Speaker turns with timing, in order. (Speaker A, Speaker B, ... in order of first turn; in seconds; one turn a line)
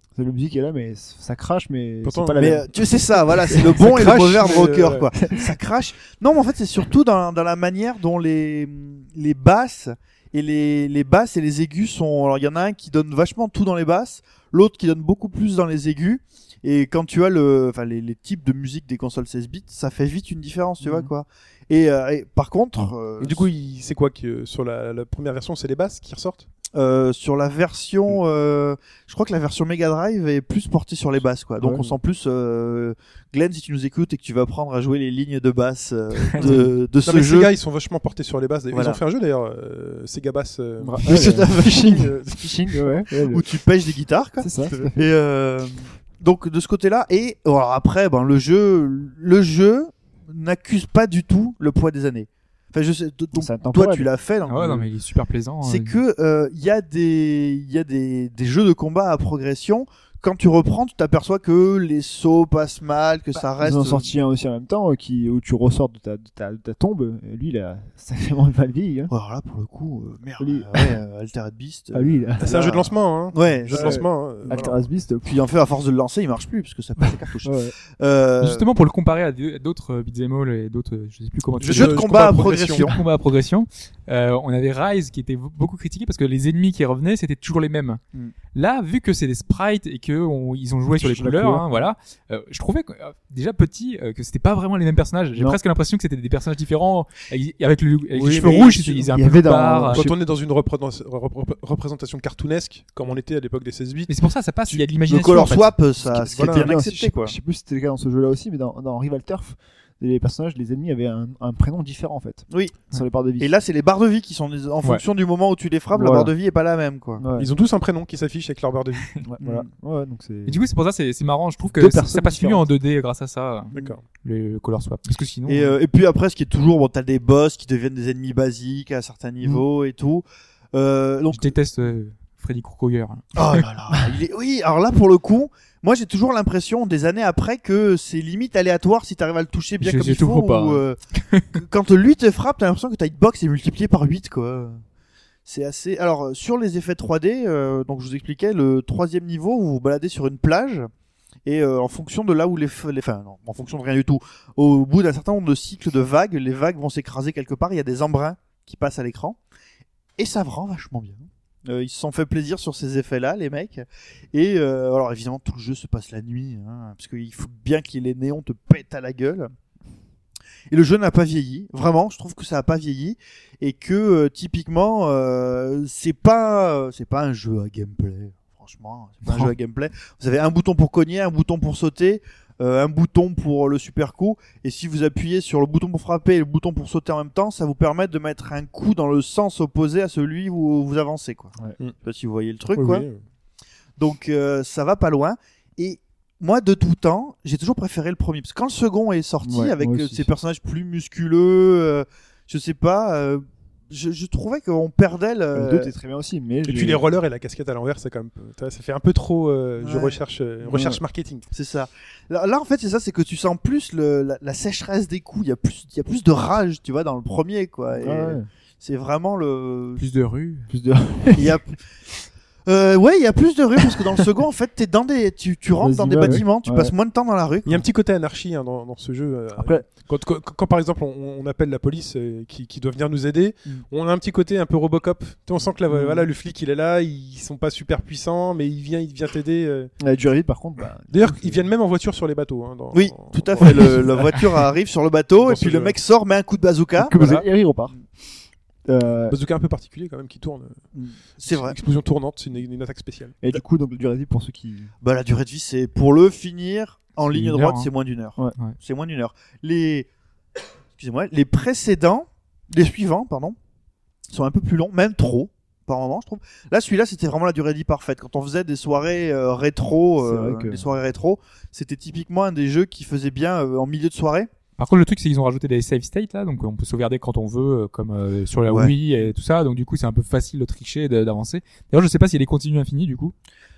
Speaker A: 0.1-4.4
Speaker B: 2.0-2.6
Speaker C: 2.4-23.5
Speaker B: 3.2-5.1
Speaker A: 5.2-5.6
Speaker A: 20.8-21.1
Speaker B: 23.2-26.5
Speaker C: 26.7-37.5
Speaker A: 31.6-31.9
Speaker D: 36.1-36.5
Speaker A: 36.4-36.7
Speaker B: 36.4-42.3
Speaker C: 38.7-39.0
Speaker A: 40.8-43.5
Speaker C: 41.0-42.2
Speaker C: 43.1-54.9
Speaker A: 44.4-45.1
Speaker A: 53.3-54.1
Speaker D: 54.5-56.0
Speaker C: 55.6-64.1
Speaker A: 63.6-69.1
Speaker C: 69.1-74.6
Speaker A: 70.4-71.0
Speaker A: 71.9-72.6
Speaker B: 72.4-74.9
Speaker A: 73.7-75.4
Speaker C: 75.2-78.6
Speaker A: 77.4-77.7
Speaker D: 78.4-88.0
Speaker B: 81.6-82.9
Speaker C: 81.7-83.0
Speaker D: 88.5-100.1
Speaker A: 91.0-91.9
Speaker A: 95.3-95.6
Speaker B: 98.1-99.1
Speaker A: 99.1-100.2
Speaker B: 99.9-104.2
Speaker D: 104.1-105.8
Speaker C: 105.1-107.3
Speaker A: 106.0-113.5
Speaker B: 106.3-106.8
Speaker C: 112.5-117.2
Speaker A: 115.9-116.3
Speaker A: 117.2-117.5
Speaker B: 117.4-119.1
Speaker A: 119.2-120.6
Speaker C: 119.4-119.7
Speaker D: 120.5-125.8
Speaker A: 121.7-122.7
Speaker B: 123.7-124.0
Speaker C: 125.5-131.5
Speaker D: 131.3-133.6
Speaker C: 133.3-141.0
Speaker D: 139.8-141.6
Speaker C: 141.5-144.8
Speaker C: 145.4-150.9
Speaker C: 151.4-159.4
Speaker C: 160.2-169.5
Speaker C: 170.7-193.1
Speaker D: 179.3-179.5
Speaker B: 192.7-193.2
Speaker C: 194.0-205.9
Speaker A: 199.4-200.3
Speaker A: 205.5-207.1
Speaker B: 206.7-211.5
Speaker C: 209.8-210.2
Speaker A: 210.6-211.0
Speaker C: 211.5-220.0
Speaker A: 217.9-218.4
Speaker D: 220.0-220.7
Speaker A: 220.7-221.6
Speaker C: 221.3-221.8
Speaker C: 222.7-227.8
Speaker A: 225.8-226.9
Speaker B: 227.6-239.9
Speaker A: 229.6-229.8
Speaker A: 235.9-236.3
Speaker A: 240.0-241.7
Speaker B: 241.1-244.4
Speaker C: 242.9-247.2
Speaker B: 245.4-246.0
Speaker A: 247.0-247.9
Speaker B: 247.1-247.4
Speaker A: 248.8-249.4
Speaker B: 249.3-250.9
Speaker C: 250.9-251.8
Speaker B: 251.4-253.6
Speaker A: 253.4-254.9
Speaker C: 255.0-260.1
Speaker D: 257.3-257.9
Speaker C: 260.9-263.6
Speaker C: 264.3-274.5
Speaker A: 270.2-270.9
Speaker D: 274.8-283.3
Speaker C: 278.7-279.0